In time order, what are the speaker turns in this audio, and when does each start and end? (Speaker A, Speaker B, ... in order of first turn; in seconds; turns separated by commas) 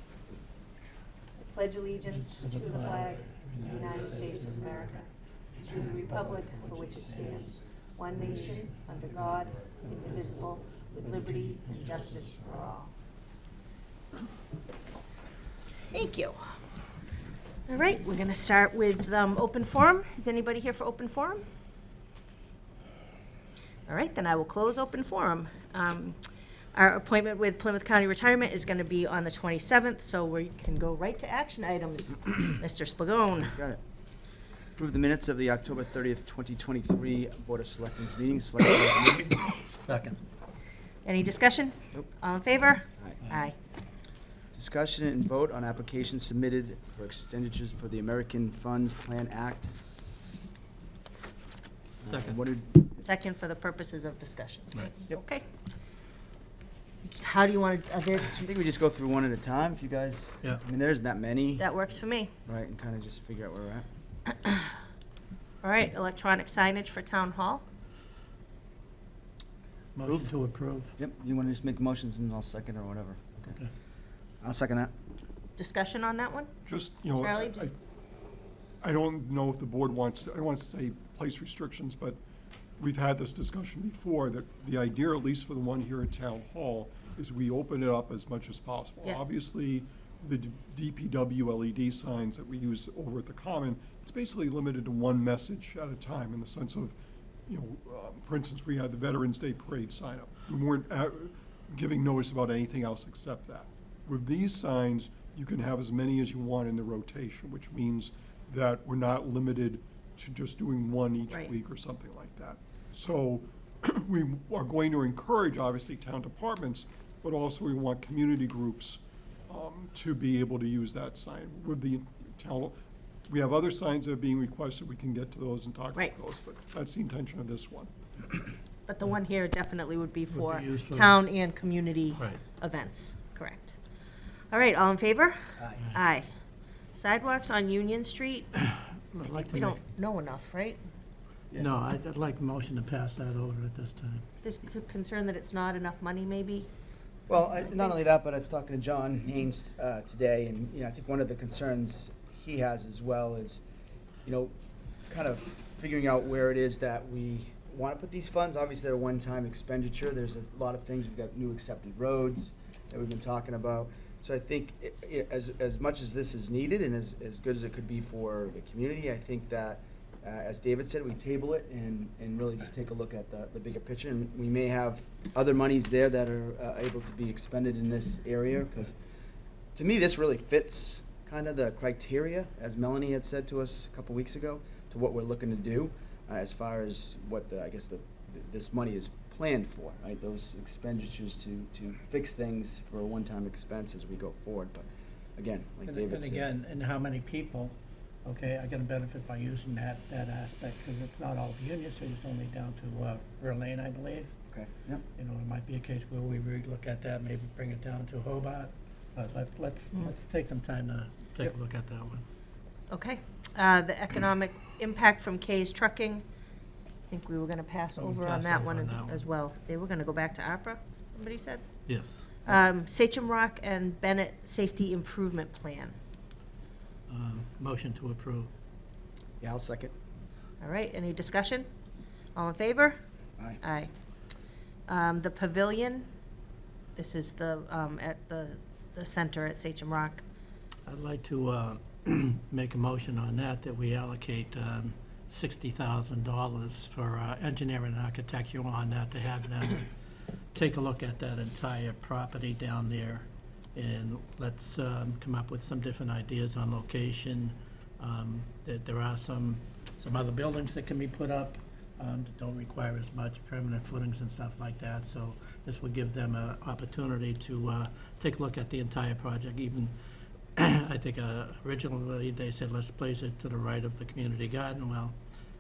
Speaker A: 1.4-5.1, Speaker B: 2.1-4.8, Speaker A: 5.6-12.9, Speaker B: 6.0-7.4, Speaker B: 9.8-10.2, Speaker B: 11.0-12.1, Speaker A: 15.9-16.4, Speaker A: 17.7-21.4, Speaker A: 23.9-26.2, Speaker A: 26.7-33.6, Speaker C: 33.5-33.8, Speaker C: 34.8-39.5, Speaker B: 39.8-40.2, Speaker A: 41.0-43.5, Speaker C: 44.5-49.7, Speaker C: 52.0-52.9, Speaker B: 52.1-52.4, Speaker A: 53.0-55.5, Speaker A: 57.1-58.3, Speaker C: 58.3-61.7, Speaker A: 61.6-62.3, Speaker C: 62.5-63.9, Speaker A: 64.3-64.7, Speaker A: 65.6-67.6, Speaker B: 70.0-70.9, Speaker C: 70.0-70.3, Speaker C: 71.0-73.6, Speaker C: 74.4-74.9, Speaker A: 75.6-76.5, Speaker D: 76.7-77.7, Speaker A: 77.2-77.7, Speaker D: 78.8-82.2, Speaker D: 82.8-122.8, Speaker A: 89.0-89.3, Speaker D: 123.3-127.9, Speaker A: 128.9-133.8, Speaker B: 130.3-131.2, Speaker A: 134.5-136.3, Speaker A: 136.9-138.5, Speaker B: 138.6-139.8, Speaker A: 139.2-140.8, Speaker B: 141.6-144.2, Speaker A: 144.4-146.7, Speaker C: 147.3-153.6, Speaker C: 154.2-154.5, Speaker C: 155.1-179.0, Speaker C: 179.8-196.5, Speaker B: 195.9-204.3, Speaker C: 204.5-205.1, Speaker B: 205.2-212.2, Speaker A: 212.9-216.2, Speaker A: 217.1-221.7, Speaker B: 218.0-219.2, Speaker B: 221.9-222.1, Speaker A: 222.4-225.9, Speaker B: 227.1-228.5, Speaker C: 229.4-229.9, Speaker A: 230.6-231.7, Speaker A: 232.3-233.0, Speaker A: 233.6-233.9, Speaker A: 234.9-236.1, Speaker A: 236.9-240.2, Speaker B: 240.9-249.9, Speaker B: 250.5-269.9, Speaker B: 270.6-275.1